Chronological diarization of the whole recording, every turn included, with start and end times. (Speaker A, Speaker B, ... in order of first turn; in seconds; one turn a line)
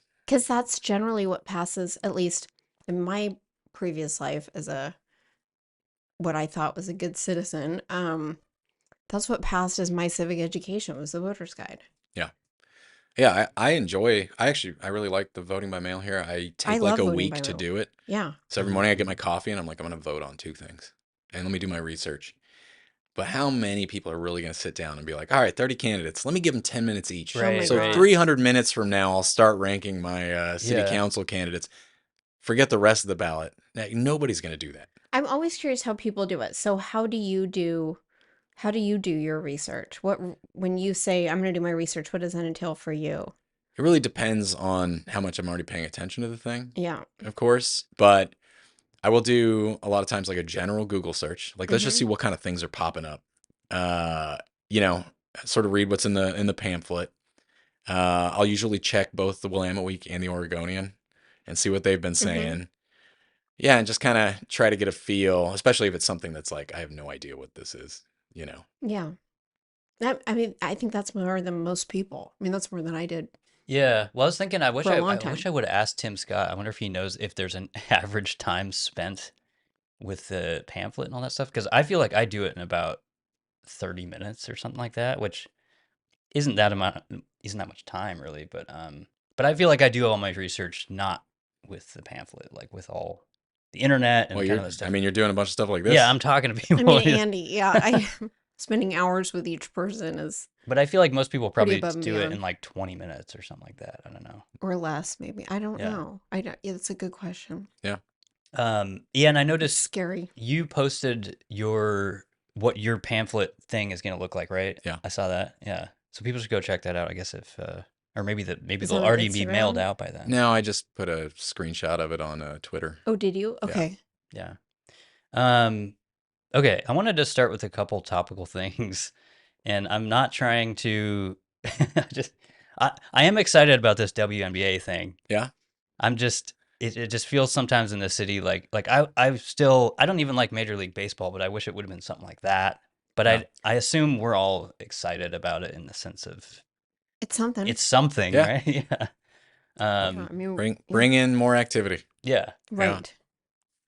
Speaker A: 0.3-4.9
Speaker A: 6.2-8.4
Speaker A: 9.1-11.8
Speaker B: 13.2-17.9
Speaker A: 16.6-18.4
Speaker B: 18.5-22.4
Speaker C: 18.6-19.1
Speaker B: 23.1-31.7
Speaker C: 27.3-28.1
Speaker A: 27.4-28.1
Speaker C: 30.6-31.0
Speaker B: 32.4-34.9
Speaker A: 35.1-38.0
Speaker A: 38.5-43.3
Speaker B: 43.8-48.3
Speaker A: 46.7-47.0
Speaker B: 49.0-57.1
Speaker A: 51.7-52.0
Speaker B: 57.9-60.9
Speaker B: 61.5-62.7
Speaker A: 62.2-62.6
Speaker B: 63.6-68.6
Speaker A: 68.8-69.1
Speaker A: 70.0-73.3
Speaker C: 73.7-79.3
Speaker A: 74.8-75.5
Speaker C: 80.0-83.0
Speaker C: 83.6-85.5
Speaker C: 86.3-94.9
Speaker B: 94.3-96.1
Speaker C: 95.8-98.0
Speaker A: 96.8-100.5
Speaker C: 100.7-104.5
Speaker A: 101.6-102.4
Speaker A: 104.6-107.7
Speaker C: 105.8-106.0
Speaker C: 108.5-120.4
Speaker A: 109.6-110.3
Speaker A: 118.8-119.8
Speaker B: 120.2-123.0
Speaker A: 123.0-124.0
Speaker C: 125.3-125.9
Speaker C: 126.5-129.1
Speaker C: 129.6-135.2
Speaker C: 136.0-146.6
Speaker A: 147.2-147.8
Speaker C: 147.6-149.1
Speaker C: 149.8-150.3
Speaker A: 150.0-151.1
Speaker B: 150.6-152.0
Speaker C: 152.2-152.6
Speaker A: 152.7-153.1
Speaker B: 152.8-153.0